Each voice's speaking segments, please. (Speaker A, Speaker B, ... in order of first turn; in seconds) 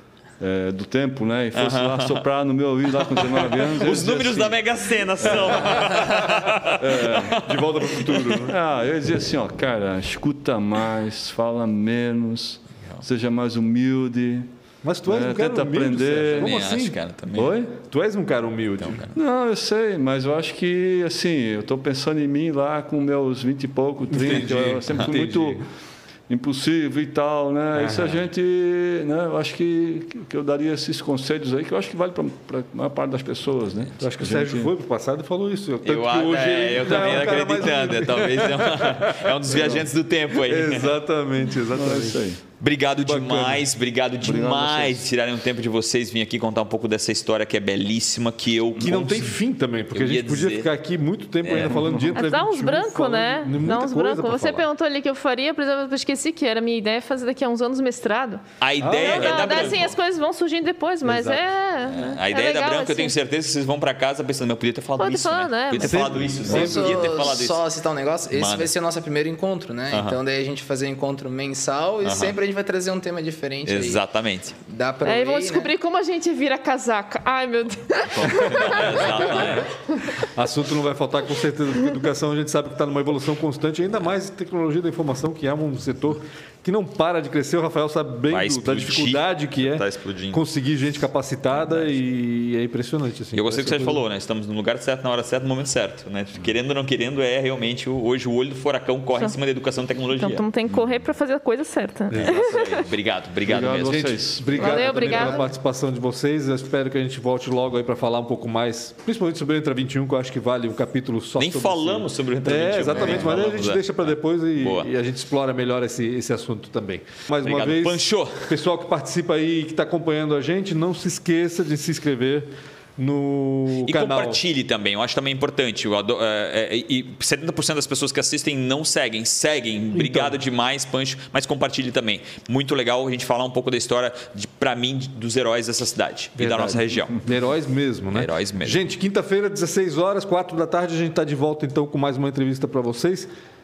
Speaker A: 0.4-4.6, 5.2-14.5, 15.0-16.5, 17.3-17.7, 19.1-25.6, 26.3-34.7, 39.5-39.8, 41.7-42.4, 44.2-45.0, 51.7-52.0, 103.5-105.0
Speaker B: 1.6-2.2, 3.1-8.4, 16.3-17.5, 18.8-19.1, 24.3-25.1, 35.8-40.9, 42.6-49.3, 49.9-50.7, 51.4-51.8, 58.6-60.0, 61.9-67.6, 68.3-68.7, 69.9-70.2, 72.0-72.4, 73.7-74.5, 78.1-79.7, 88.3-90.4, 91.5-91.9, 93.3-100.4, 102.2-104.1, 111.4-114.9, 117.4-118.5, 123.8-137.2, 138.1-138.8
Speaker C: 14.8-17.0, 17.8-19.1, 24.1-25.6, 27.7-28.1, 34.0-39.9, 40.4-42.2, 43.0-43.6, 48.8-54.6, 58.8-59.9, 61.0-61.4, 65.8-66.9, 79.1-79.7, 80.3-94.0, 103.8-124.4, 129.9-130.3, 136.3-143.3
Speaker D: 52.1-58.4, 59.0-63.1, 65.0-66.1, 75.0-80.1, 100.1-102.8, 104.5-105.5
Speaker E: 66.5-74.0, 74.7-75.7